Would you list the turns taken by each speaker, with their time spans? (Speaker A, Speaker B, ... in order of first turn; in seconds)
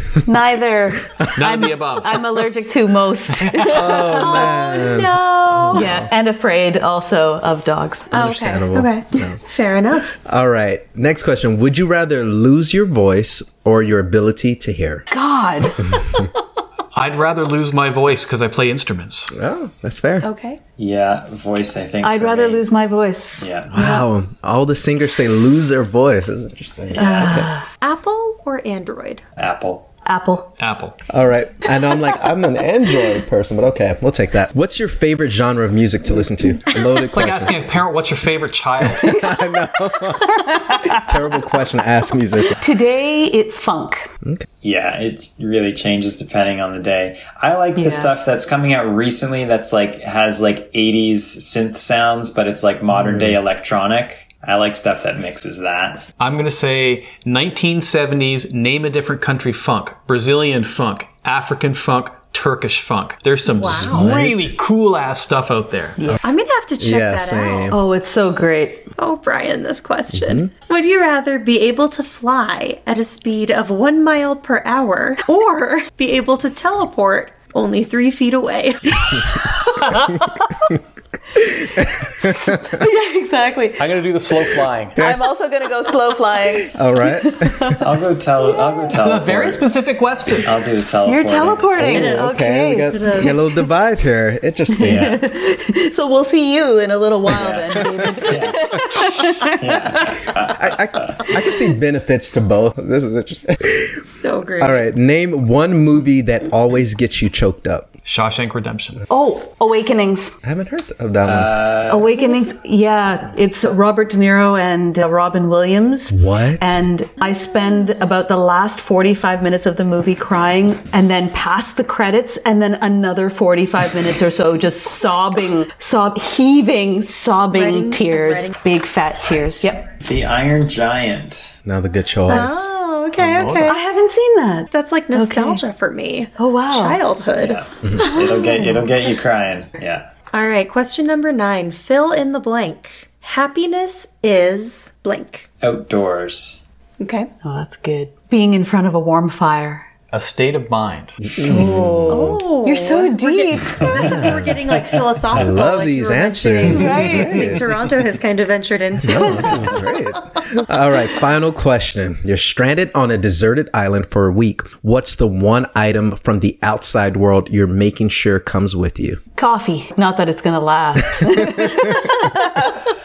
Speaker A: 0.2-4.5, 5.7-8.1, 15.1-16.0, 22.0-24.0, 27.0-27.6, 30.1-30.5, 39.0-39.3, 40.3-41.0, 42.6-44.1, 47.8-48.1, 66.0-66.3, 67.7-68.9, 79.2-80.6, 81.4-81.9, 82.4-84.0, 85.0-87.8, 91.0-93.6, 94.7-100.3, 109.1-110.3, 111.9-129.8, 133.6-135.6, 136.4-137.0, 138.2-138.5, 147.4-149.8, 151.4-154.0, 156.7-157.5, 169.4-172.8
Speaker B: 1.3-2.5, 3.4-3.7, 16.9-19.3, 30.6-31.0, 37.1-39.2, 56.2-66.0, 83.8-85.0, 89.0-90.6, 108.0-109.0, 133.3-133.7, 150.1-151.2
Speaker C: 3.6-6.1, 8.1-9.4, 10.2-15.1, 15.8-16.3, 19.3-20.3, 23.7-27.5, 31.1-37.5, 39.0-42.6, 53.0-53.4, 63.6-64.5, 66.0-67.8, 70.1-70.5, 81.8-82.6, 86.7-87.8, 91.8-95.1, 100.5-104.0, 104.6-107.9, 110.4-111.6, 116.1-116.8, 131.6-132.7, 151.2-152.4, 154.0-154.6, 155.3-157.7, 159.0-169.2, 171.2-172.1
Speaker D: 4.0-5.9, 8.1-10.1, 20.2-20.6, 27.8-29.2, 63.5-64.1, 66.2-67.7, 69.0-79.5, 91.9-93.3, 104.0-104.9, 127.5-128.6, 132.3-133.8, 134.7-138.8, 140.3-145.5, 147.0-147.3, 152.1-160.0
Speaker E: 20.8-22.6, 23.4-23.8, 26.9-27.4, 29.4-29.9, 44.6-56.1, 87.8-89.7, 90.4-91.8, 94.8-95.2, 97.3-101.2, 111.2-112.1, 130.0-131.5, 137.4-140.1, 145.6-146.6, 153.8-155.0